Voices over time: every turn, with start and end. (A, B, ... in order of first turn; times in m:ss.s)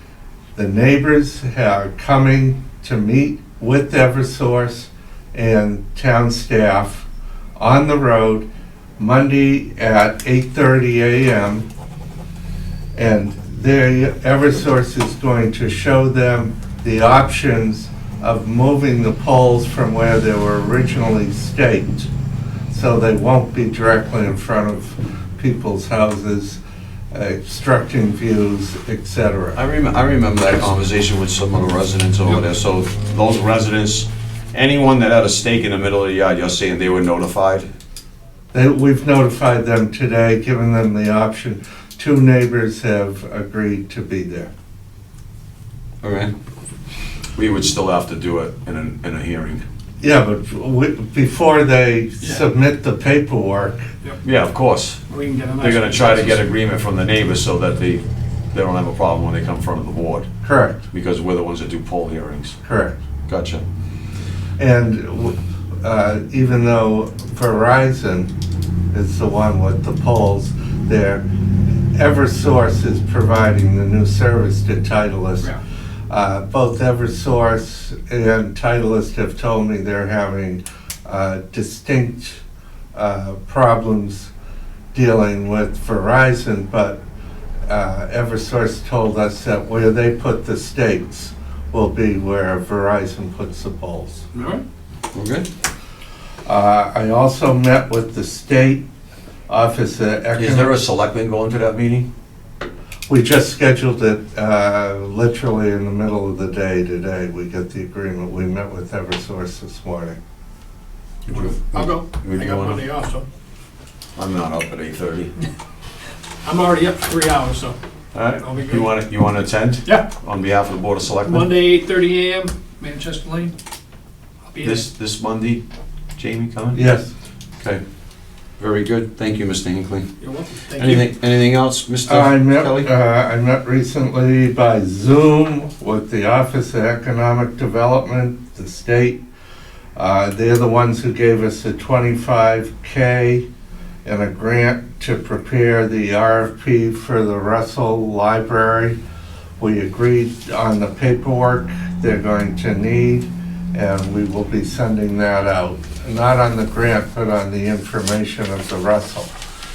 0:00.5-0:08.5 A
0:09.0-0:11.6 A
0:12.9-0:22.1 A
0:22.7-0:26.6 A
0:27.1-0:29.6 A
0:29.5-0:37.7 B
0:38.5-0:44.5 A
0:46.0-0:46.3 B
0:47.4-0:49.6 B
0:50.0-0:53.9 A
0:54.2-0:55.0 B
0:55.1-0:56.4 C
0:55.6-1:00.3 B
1:00.4-1:00.8 A
1:00.9-1:02.5 B
1:02.6-1:03.0 A
1:03.3-1:03.6 B
1:04.6-1:08.3 A
1:08.9-1:11.2 A
1:11.9-1:15.5 A
1:16.1-1:22.4 A
1:22.9-1:24.3 A
1:24.9-1:27.0 A
1:27.7-1:34.2 A
1:34.3-1:34.6 C
1:35.1-1:35.4 B
1:36.4-1:38.8 A
1:39.5-1:40.9 A
1:40.3-1:42.1 B
1:43.1-1:50.2 A
1:51.3-1:52.8 B
1:51.3-1:53.2 C
1:54.2-1:55.3 B
1:56.4-1:57.8 C
1:58.1-2:01.5 B
1:58.4-1:58.9 C
2:01.2-2:03.5 C
2:04.5-2:04.8 C
2:04.6-2:05.6 B
2:06.2-2:06.8 B
2:06.7-2:07.1 A
2:08.6-2:10.1 B
2:10.2-2:11.1 C
2:10.8-2:12.9 B
2:12.1-2:19.2 A
2:20.0-2:23.4 A
2:24.0-2:29.0 A
2:29.6-2:39.3 A